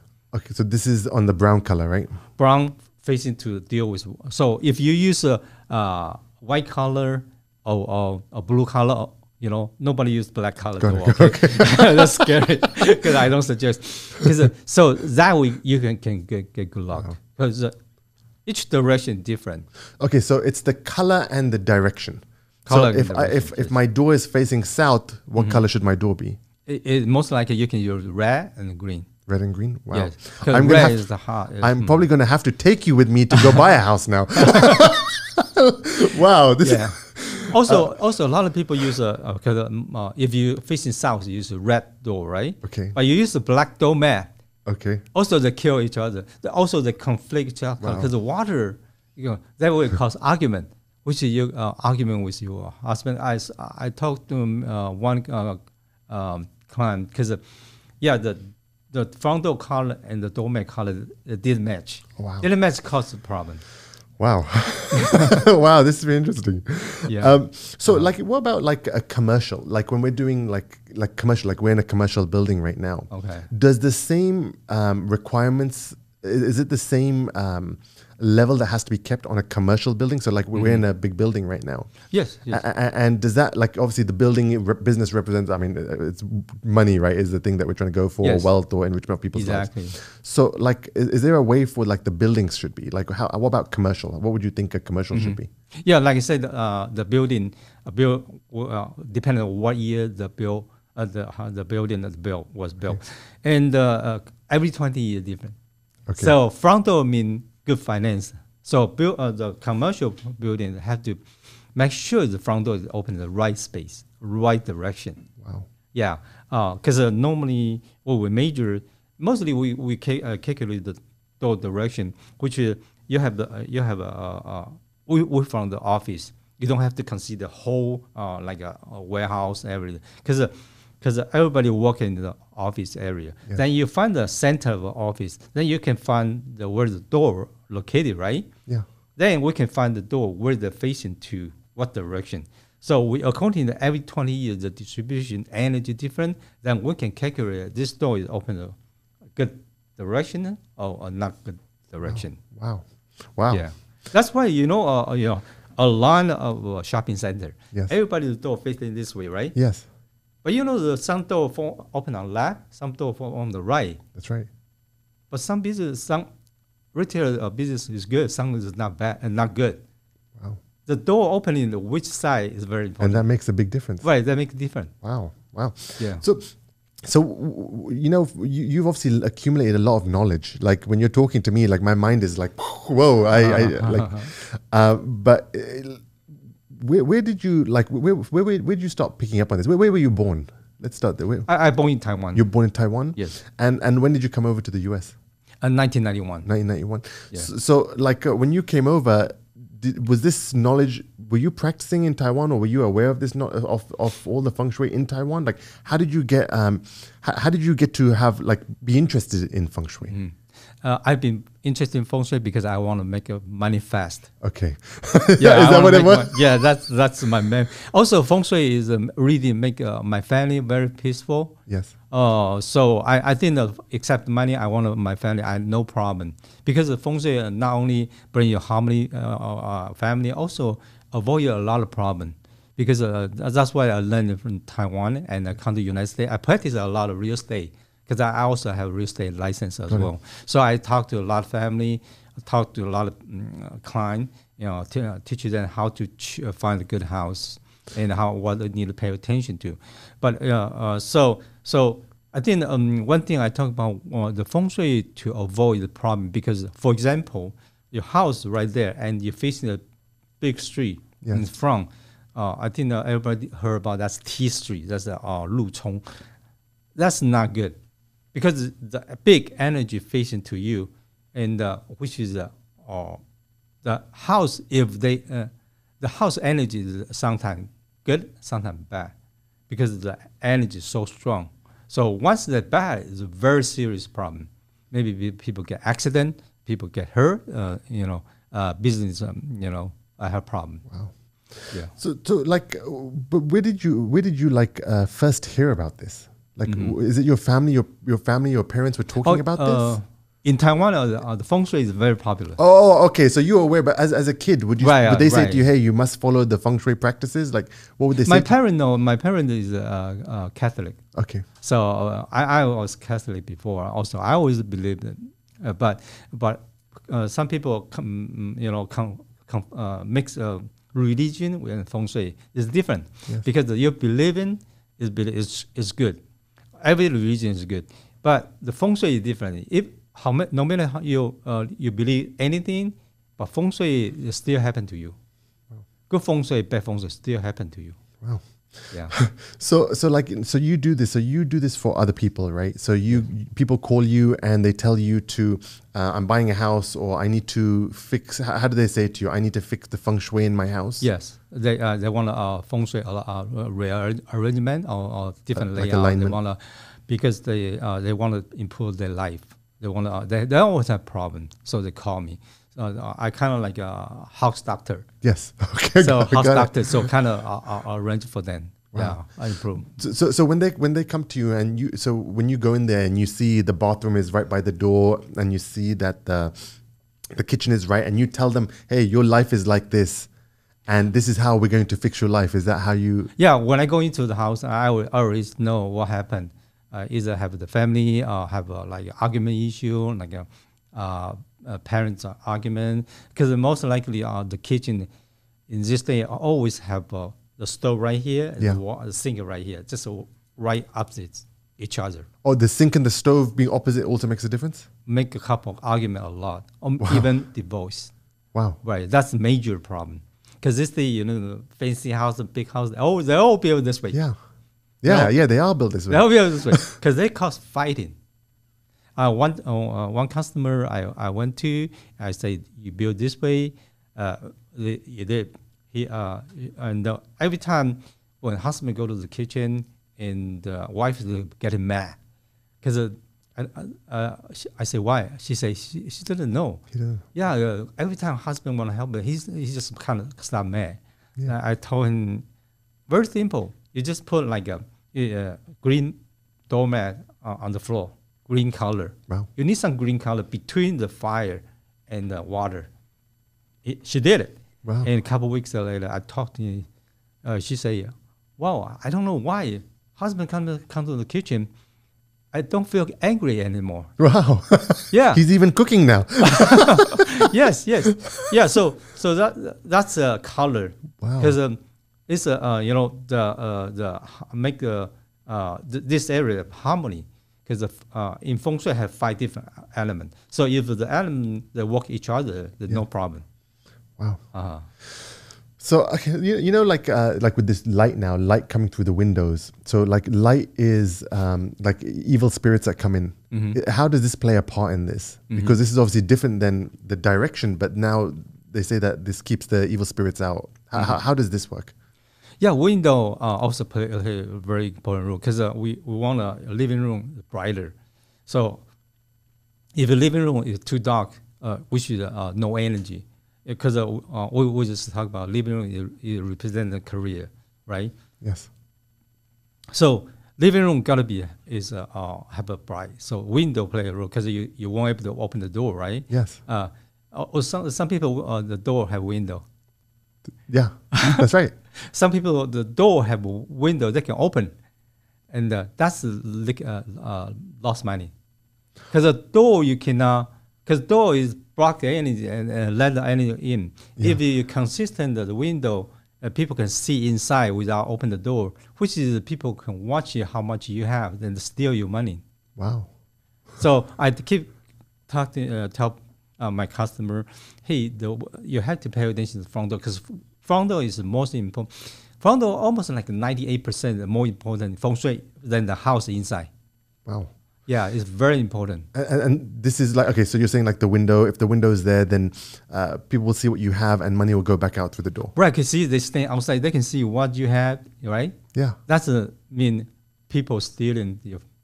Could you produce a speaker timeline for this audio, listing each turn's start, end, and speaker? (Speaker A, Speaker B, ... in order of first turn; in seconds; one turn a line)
Speaker A: 0.3-2.2
Speaker B: 2.4-17.8
Speaker A: 10.8-12.3
Speaker B: 18.5-19.7
Speaker A: 20.0-26.4
Speaker B: 22.7-23.8
Speaker B: 25.4-25.6
Speaker B: 26.7-29.1
Speaker A: 29.3-37.9
Speaker B: 29.9-32.1
Speaker B: 34.5-34.8
Speaker B: 36.6-44.3
Speaker A: 42.6-43.0
Speaker A: 44.7-45.0
Speaker B: 45.1-57.4
Speaker A: 47.8-48.1
Speaker B: 58.0-63.6
Speaker A: 62.2-62.5
Speaker A: 64.2-95.5
Speaker B: 65.0-65.4
Speaker B: 67.1-68.1
Speaker B: 73.1-73.5
Speaker B: 80.5-80.8
Speaker B: 82.1-82.6
Speaker B: 88.2-88.5
Speaker B: 89.3-90.0
Speaker B: 95.1-105.6
Speaker A: 106.1-106.3
Speaker B: 106.2-111.2
Speaker B: 111.8-115.3
Speaker A: 115.4-115.7
Speaker B: 115.9-138.5
Speaker B: 139.2-148.8
Speaker B: 149.3-152.4
Speaker A: 152.1-153.7
Speaker B: 153.5-159.6
Speaker A: 159.6-159.8
Speaker B: 160.4-164.0
Speaker A: 164.2-164.5
Speaker B: 165.3-166.3
Speaker B: 166.9-169.8
Speaker B: 170.9-173.3
Speaker A: 173.0-174.1
Speaker B: 174.0-174.9
Speaker A: 175.0-186.1
Speaker B: 176.0-176.2
Speaker B: 183.3-184.3
Speaker A: 186.7-191.5
Speaker B: 191.5-192.5
Speaker A: 192.3-195.1
Speaker B: 195.6-196.5
Speaker A: 196.5-210.1
Speaker B: 210.1-214.3
Speaker A: 214.4-216.4
Speaker B: 215.4-221.6
Speaker B: 222.1-259.8
Speaker B: 260.4-266.1
Speaker A: 261.2-261.5
Speaker B: 267.0-267.8
Speaker B: 268.3-273.2
Speaker B: 273.8-279.1
Speaker B: 279.7-290.9
Speaker A: 290.9-300.0
Speaker B: 296.7-296.9
Speaker B: 299.2-302.6
Speaker A: 302.6-308.5
Speaker B: 304.8-305.6
Speaker B: 308.2-311.0
Speaker A: 311.1-311.4
Speaker B: 311.6-326.2
Speaker B: 326.8-335.1
Speaker B: 336.1-338.0
Speaker A: 338.2-351.1
Speaker B: 338.9-339.1
Speaker B: 351.0-365.1
Speaker A: 355.6-356.4
Speaker A: 365.2-367.1
Speaker B: 366.0-369.9
Speaker A: 368.9-369.2
Speaker A: 369.9-376.8
Speaker A: 377.3-380.3
Speaker A: 380.9-383.3
Speaker B: 383.4-395.1
Speaker B: 395.7-402.3
Speaker A: 402.4-404.9
Speaker B: 405.1-408.1
Speaker A: 407.0-407.3
Speaker B: 408.8-414.2
Speaker A: 415.0-416.8
Speaker B: 415.1-415.3
Speaker B: 416.1-418.1
Speaker B: 419.2-432.2
Speaker B: 432.8-442.4
Speaker A: 436.9-437.2
Speaker B: 443.1-446.2
Speaker B: 446.7-452.9
Speaker B: 453.8-456.9
Speaker B: 457.4-461.7
Speaker B: 462.5-464.1
Speaker A: 464.2-467.2
Speaker B: 465.1-465.4
Speaker B: 466.4-483.4
Speaker A: 471.2-471.6
Speaker B: 484.5-484.9
Speaker A: 485.0-501.9
Speaker B: 493.5-493.8
Speaker B: 495.5-495.8
Speaker B: 502.6-507.9
Speaker B: 508.5-508.8
Speaker B: 509.9-518.1
Speaker A: 518.4-518.7
Speaker B: 519.9-529.6
Speaker A: 526.3-526.6
Speaker A: 530.7-531.7
Speaker B: 531.1-531.5
Speaker B: 532.0-534.7
Speaker B: 535.5-538.3
Speaker B: 539.1-552.4
Speaker A: 552.8-553.1
Speaker B: 553.8-554.8
Speaker B: 555.3-566.7
Speaker A: 567.3-567.5
Speaker B: 567.9-569.1
Speaker A: 569.1-575.5
Speaker B: 575.5-581.6